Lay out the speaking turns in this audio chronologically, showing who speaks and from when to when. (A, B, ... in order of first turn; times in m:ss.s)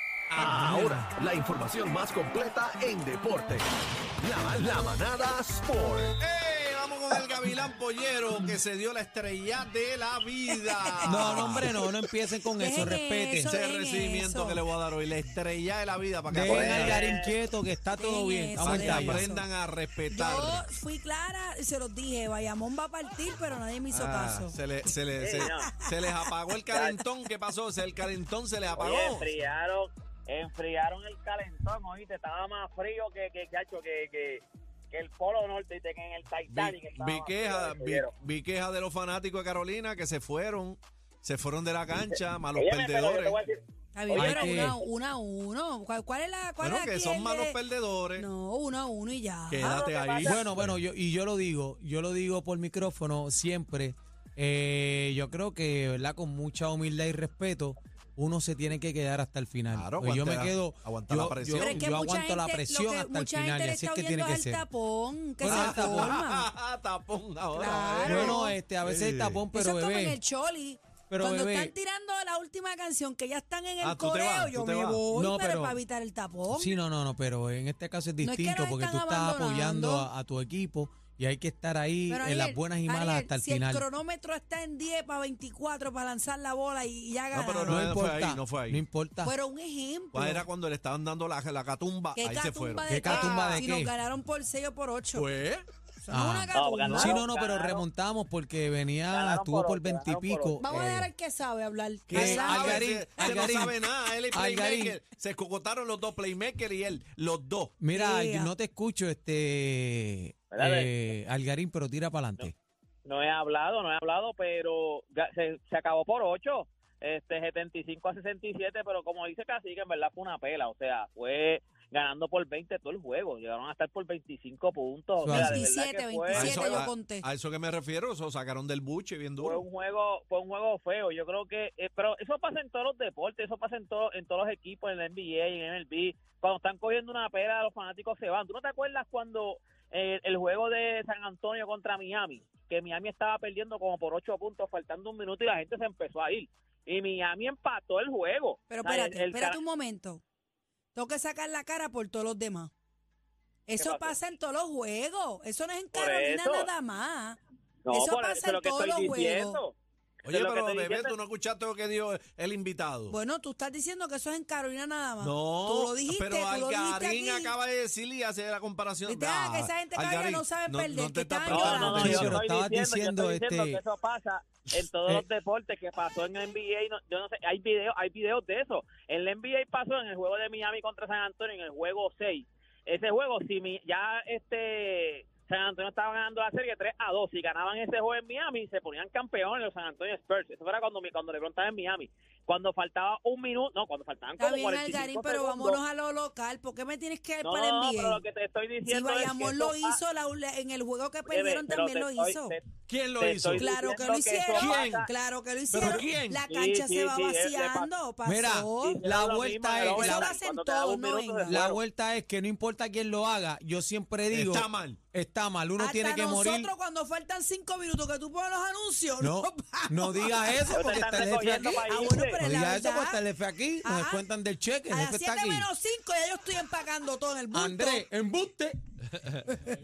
0:00.3-0:03.6 A
0:04.2-0:06.1 A
0:06.2-0:11.8 B
0:10.9-0:11.5 C
0:11.0-0:13.6 D
0:12.6-0:14.6 C
0:12.8-0:17.3 B
0:16.3-0:19.3 D
0:16.4-0:17.3 E
0:18.0-0:19.4 C
0:18.6-0:20.6 B
0:20.1-0:24.6 C
0:23.9-0:29.3 B
0:25.2-0:25.7 E
0:25.4-0:25.9 C
0:26.7-0:27.0 E
0:28.7-0:38.1 E
0:36.5-0:43.4 B
0:42.0-0:44.8 E
0:43.9-0:47.6 C
0:44.2-0:44.8 D
0:46.6-0:48.3 B
0:48.2-0:49.8 C
0:49.5-0:50.8 B
0:49.6-0:50.4 E
0:50.2-1:04.6 D
0:59.7-1:01.9 B
1:01.6-1:06.5 C
1:05.4-1:06.2 D
1:05.4-1:09.4 B
1:07.5-1:08.6 C
1:08.0-1:10.2 D
1:09.5-1:16.8 C
1:11.1-1:11.7 D
1:13.8-1:15.0 B
1:15.1-1:15.8 D
1:16.5-1:23.8 D
1:18.2-1:20.1 C
1:22.1-1:27.9 C
1:27.3-1:28.8 B
1:27.6-1:29.4 D
1:29.2-1:30.4 C
1:30.1-1:33.6 B
1:32.2-1:35.2 C
1:32.9-1:33.9 D
1:33.0-1:33.4 E
1:35.1-1:35.6 B
1:36.0-1:37.0 C
1:36.1-1:41.1 D
1:36.5-1:37.8 E
1:36.9-1:37.2 B
1:39.1-1:40.8 E
1:40.6-1:43.3 C
1:42.1-1:47.7 B
1:42.1-1:43.8 D
1:44.3-1:45.0 D
1:47.8-1:52.5 D
1:47.9-1:48.5 C
1:50.5-1:51.0 E
1:53.0-2:06.9 E
2:05.2-2:05.6 D
2:05.3-2:07.2 C
2:06.3-2:09.6 B
2:09.4-2:29.6 E
2:28.7-2:30.2 C
2:30.9-2:32.7 C
2:33.7-2:37.4 C
2:33.8-2:34.2 E
2:35.9-2:36.7 E
2:37.8-2:41.1 E
2:37.9-2:39.6 C
2:40.2-2:43.2 B
2:43.1-2:47.5 C
2:45.2-2:52.3 B
2:49.0-2:52.2 C
2:51.5-3:15.8 E
2:51.8-2:53.8 D
3:14.4-3:18.2 C
3:17.4-3:20.0 E
3:18.9-3:22.6 C
3:21.3-3:25.1 E
3:22.9-3:23.7 B
3:23.5-3:29.0 C
3:24.5-3:25.1 B
3:25.7-3:26.4 B
3:25.8-3:27.9 E
3:28.2-3:30.3 D
3:28.8-3:31.8 E
3:29.9-3:31.6 C
3:31.4-3:36.7 D
3:34.3-3:35.0 B
3:35.8-3:40.8 C
3:39.2-3:45.7 D
3:40.7-3:42.4 E
3:41.9-3:43.2 C
3:43.8-3:44.2 C
3:44.9-3:48.0 C
3:47.5-3:48.8 D